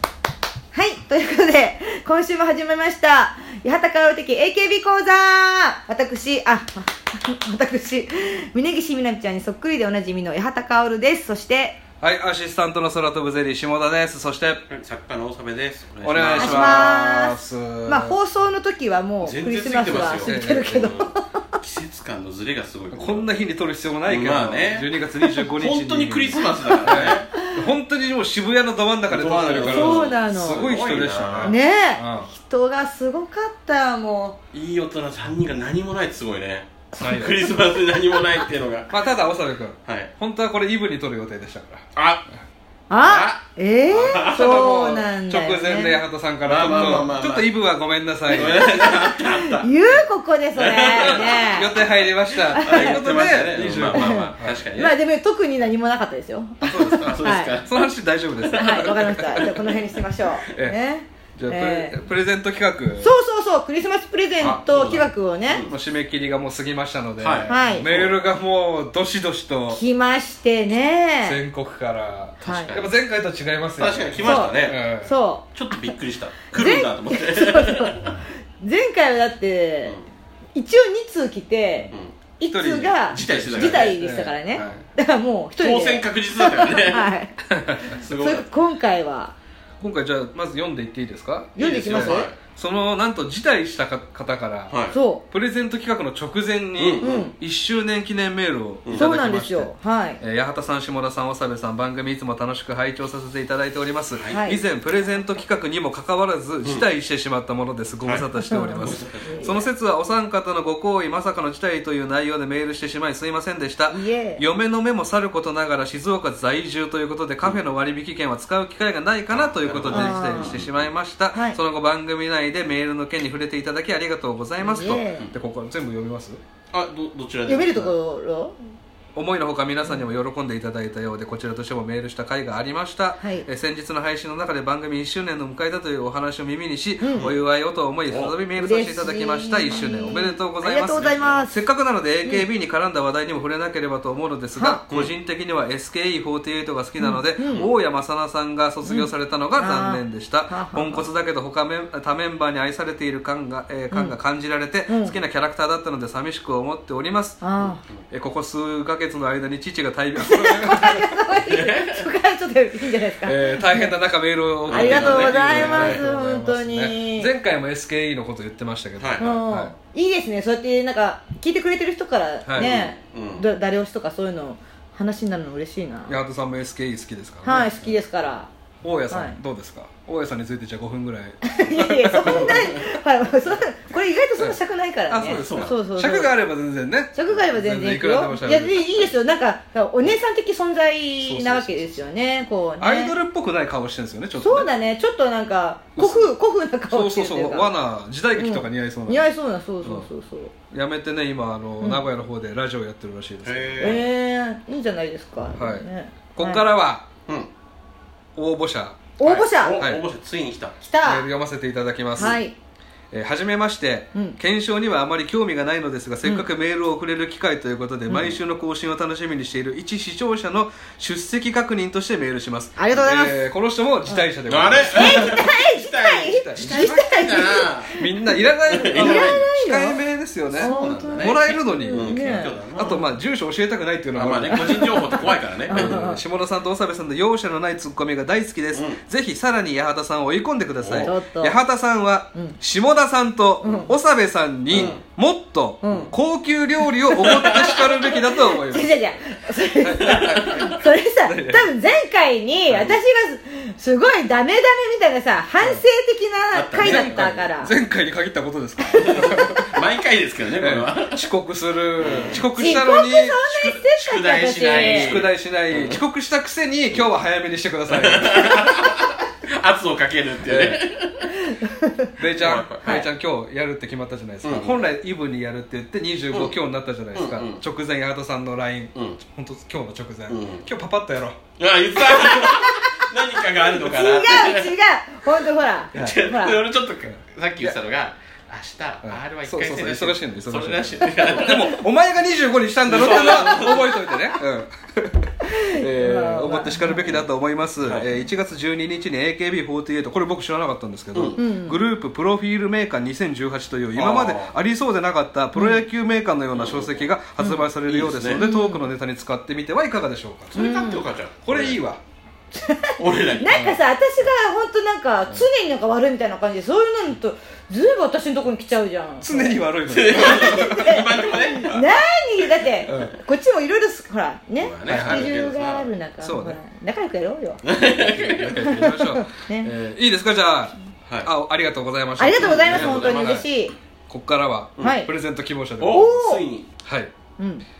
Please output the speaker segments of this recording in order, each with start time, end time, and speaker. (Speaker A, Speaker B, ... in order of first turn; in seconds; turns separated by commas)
Speaker A: 0.7-11.8, Speaker B: 12.0-14.6, Speaker C: 14.7-16.9, Speaker B: 16.0-18.1, Speaker A: 16.4-21.5, Speaker C: 19.2-23.3, Speaker B: 20.2-20.9, Speaker B: 22.9-32.3, Speaker C: 24.0-27.3, Speaker C: 29.1-31.6, Speaker A: 29.6-30.7, Speaker A: 31.4-34.4, Speaker C: 34.5-38.9, Speaker A: 37.0-37.6, Speaker B: 37.0-37.4, Speaker B: 38.9-41.9, Speaker C: 39.8-40.1, Speaker C: 41.9-42.3, Speaker A: 42.9-46.0, Speaker C: 42.9-44.7, Speaker B: 43.9-48.8, Speaker C: 46.4-47.5, Speaker A: 46.6-47.1, Speaker C: 48.2-49.7, Speaker A: 48.5-51.8, Speaker C: 50.5-51.5, Speaker B: 51.0-54.6, Speaker C: 52.5-55.0, Speaker A: 52.5-53.1, Speaker A: 53.9-57.5, Speaker C: 56.6-57.9, Speaker B: 57.6-59.5, Speaker C: 58.4-59.7, Speaker A: 58.5-62.0, Speaker B: 60.5-60.8, Speaker B: 61.4-63.1, Speaker A: 63.0-65.6, Speaker C: 64.4-65.7, Speaker B: 65.7-69.8, Speaker C: 67.2-68.2, Speaker A: 67.5-67.9, Speaker A: 69.7-71.4, Speaker B: 71.2-75.1, Speaker C: 72.4-72.9, Speaker A: 72.4-72.7, Speaker C: 73.8-74.8, Speaker A: 74.2-75.5, Speaker C: 75.5-78.1, Speaker A: 76.5-80.0, Speaker A: 80.5-89.3, Speaker B: 82.5-84.8, Speaker C: 83.1-84.0, Speaker C: 84.5-84.8, Speaker C: 85.6-87.1, Speaker B: 87.5-87.9, Speaker C: 87.9-88.5, Speaker B: 89.8-94.8, Speaker A: 91.6-92.3, Speaker C: 91.6-92.3, Speaker C: 94.7-95.0, Speaker A: 94.9-95.2, Speaker B: 95.3-126.4, Speaker C: 96.8-97.3, Speaker A: 97.0-97.3, Speaker C: 98.8-99.1, Speaker A: 99.0-100.2, Speaker C: 104.1-104.4, Speaker A: 104.3-104.6, Speaker C: 108.0-109.3, Speaker A: 108.4-109.7, Speaker A: 113.9-114.4, Speaker C: 119.3-120.9, Speaker A: 119.9-120.6, Speaker A: 124.6-125.2, Speaker C: 126.7-127.9, Speaker A: 127.5-128.5, Speaker B: 129.1-157.5, Speaker A: 133.2-133.5, Speaker A: 137.0-137.3, Speaker C: 138.1-138.3, Speaker A: 138.6-141.6, Speaker C: 141.0-141.4, Speaker A: 144.6-144.8, Speaker A: 147.0-147.6, Speaker C: 147.5-147.7, Speaker A: 148.8-151.1, Speaker A: 153.9-154.2, Speaker A: 154.9-155.2, Speaker A: 157.4-157.8, Speaker B: 158.1-161.2, Speaker A: 160.2-163.9, Speaker C: 161.4-162.1, Speaker B: 163.2-169.7, Speaker C: 164.7-166.0, Speaker A: 164.7-167.3, Speaker C: 169.0-169.2, Speaker A: 169.2-176.2, Speaker B: 172.4-172.7, Speaker C: 172.6-173.4, Speaker B: 176.1-177.9, Speaker A: 177.4-178.5, Speaker B: 178.8-182.7, Speaker A: 179.1-179.4, Speaker A: 181.4-186.3, Speaker C: 182.3-182.8, Speaker B: 185.1-189.1, Speaker C: 185.2-185.7, Speaker A: 187.1-193.1, Speaker B: 191.2-192.1, Speaker B: 192.8-194.7, Speaker A: 194.3-197.7, Speaker B: 195.9-196.3, Speaker B: 196.9-199.3, Speaker A: 198.3-200.5, Speaker B: 200.7-204.0, Speaker A: 201.8-202.1, Speaker C: 203.4-204.0, Speaker A: 203.8-206.6, Speaker B: 205.5-207.1, Speaker B: 208.3-210.0, Speaker A: 209.2-209.8, Speaker C: 209.4-210.8, Speaker A: 210.8-211.2, Speaker B: 211.0-212.4, Speaker A: 212.1-212.5, Speaker B: 213.1-225.5, Speaker A: 218.1-218.3, Speaker A: 222.8-223.4, Speaker C: 224.5-228.0, Speaker A: 224.9-228.1, Speaker B: 226.3-227.1, Speaker B: 228.0-248.9, Speaker C: 228.7-229.4, Speaker A: 228.8-230.0, Speaker C: 230.5-233.0, Speaker A: 230.6-233.1, Speaker C: 234.1-236.0, Speaker A: 234.5-236.2, Speaker C: 238.7-239.0, Speaker C: 240.8-241.1, Speaker A: 241.0-241.6, Speaker A: 243.6-243.9, Speaker C: 244.7-245.0, Speaker A: 245.8-246.1, Speaker A: 247.0-257.7, Speaker C: 247.2-247.9, Speaker B: 249.8-251.7, Speaker C: 250.0-250.8, Speaker B: 252.7-252.9, Speaker C: 256.5-257.5, Speaker B: 256.8-259.8, Speaker A: 258.9-259.5, Speaker C: 259.0-261.3, Speaker B: 260.6-263.4, Speaker C: 262.0-262.4, Speaker A: 262.5-265.2, Speaker C: 263.4-266.0, Speaker B: 264.7-268.9, Speaker C: 267.9-271.5, Speaker B: 270.4-270.8, Speaker A: 271.5-272.1, Speaker B: 272.2-281.4, Speaker C: 272.4-273.0, Speaker C: 274.4-274.8, Speaker C: 277.1-277.6, Speaker C: 280.3-280.7, Speaker C: 281.6-284.7, Speaker B: 282.1-282.5, Speaker A: 283.6-286.6, Speaker C: 285.9-291.8, Speaker B: 287.0-287.8, Speaker B: 289.0-310.9, Speaker C: 292.9-294.1, Speaker A: 295.4-297.1, Speaker C: 297.8-298.1, Speaker C: 301.1-301.4, Speaker A: 301.4-301.8, Speaker C: 303.9-304.5, Speaker A: 305.5-305.8, Speaker C: 306.5-307.0, Speaker C: 307.9-308.4, Speaker A: 308.4-308.8, Speaker C: 310.5-311.8, Speaker A: 310.6-311.0, Speaker B: 311.4-312.0, Speaker A: 312.5-329.7, Speaker C: 313.0-313.6, Speaker B: 313.5-313.8, Speaker B: 319.2-321.1, Speaker C: 319.9-321.9, Speaker B: 322.9-323.1, Speaker C: 324.6-325.9, Speaker B: 324.9-325.3, Speaker B: 326.2-326.6, Speaker C: 327.6-328.8, Speaker B: 328.4-333.4, Speaker C: 331.1-331.3, Speaker A: 332.2-333.7, Speaker C: 332.4-333.4, Speaker B: 334.1-336.1, Speaker A: 334.8-335.1, Speaker C: 335.8-336.7, Speaker A: 335.9-336.4, Speaker B: 336.8-337.1, Speaker A: 337.4-337.6